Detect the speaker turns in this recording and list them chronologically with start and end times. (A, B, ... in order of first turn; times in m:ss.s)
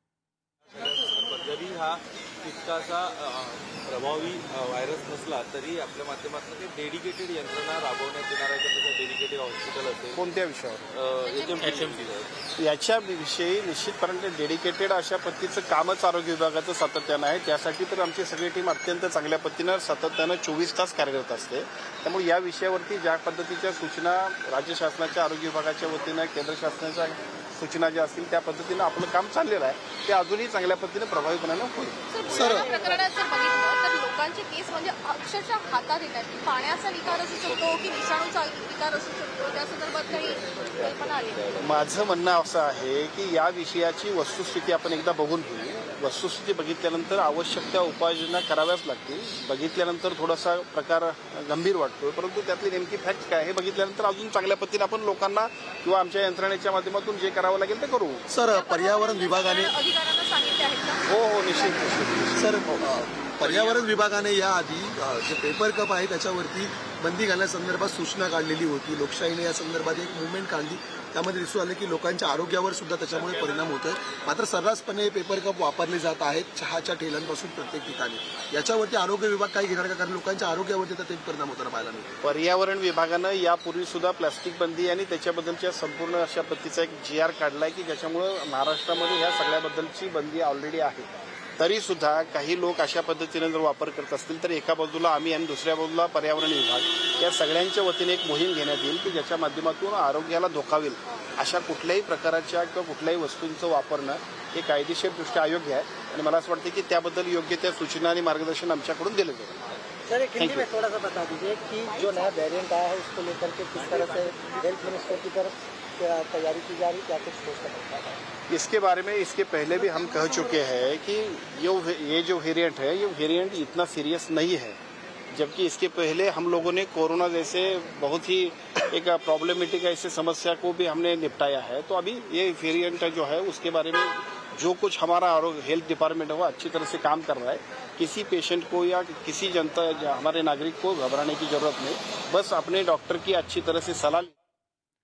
0:00.7-0:10.2 A
0:10.1-0:10.9 B
0:10.9-0:12.4 A
0:11.2-0:11.6 C
0:12.6-0:32.0 B
0:32.1-0:41.6 C
0:32.3-0:32.8 D
0:37.6-0:37.9 A
0:40.5-0:41.6 A
0:41.6-0:58.2 B
0:58.3-0:59.7 D
0:58.5-1:01.9 C
1:01.1-1:02.9 B
1:02.4-1:22.2 D
1:03.5-1:03.7 A
1:22.2-1:49.5 B
1:50.1-1:58.2 E
1:50.4-1:50.6 B
1:53.8-1:54.6 A
1:58.5-2:04.8 B
2:05.3-2:24.3 B